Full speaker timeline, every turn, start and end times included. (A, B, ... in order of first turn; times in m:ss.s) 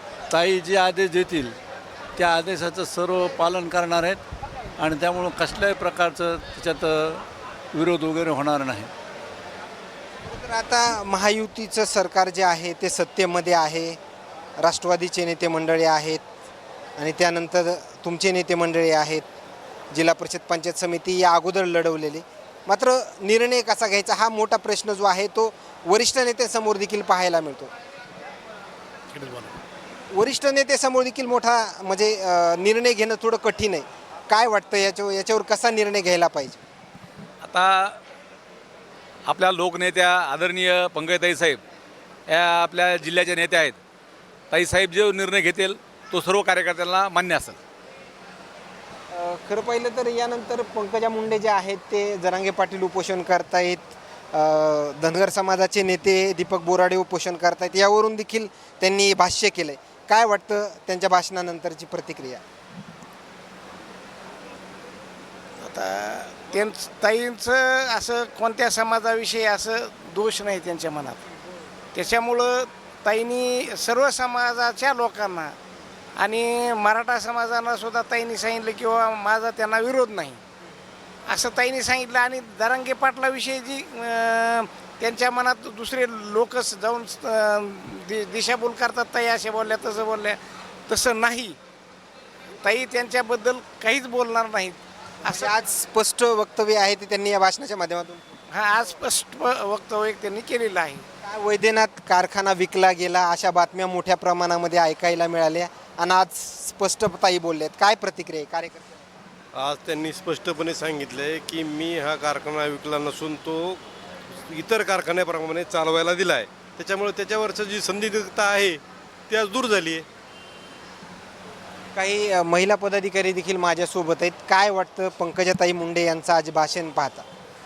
0:00.3-0:01.6 A
0:02.2-0:04.2 A
0:04.8-0:08.9 A
0:10.2-0:14.0 B
0:14.6-0:16.2 B
0:17.0-0:19.3 B
0:19.9-0:27.7 B
0:29.1-0:29.5 C
0:30.1-0:36.6 B
0:37.4-0:38.0 D
0:39.2-0:41.6 D
0:42.3-0:43.8 D
0:44.5-0:47.6 D
0:49.1-1:02.4 B
1:05.6-1:11.2 C
1:11.9-1:15.6 C
1:16.2-1:20.4 C
1:21.3-1:31.6 C
1:32.6-1:35.5 C
1:35.3-1:38.2 B
1:38.5-1:41.0 C
1:41.2-1:48.9 B
1:49.5-2:00.0 E
2:01.9-2:07.3 B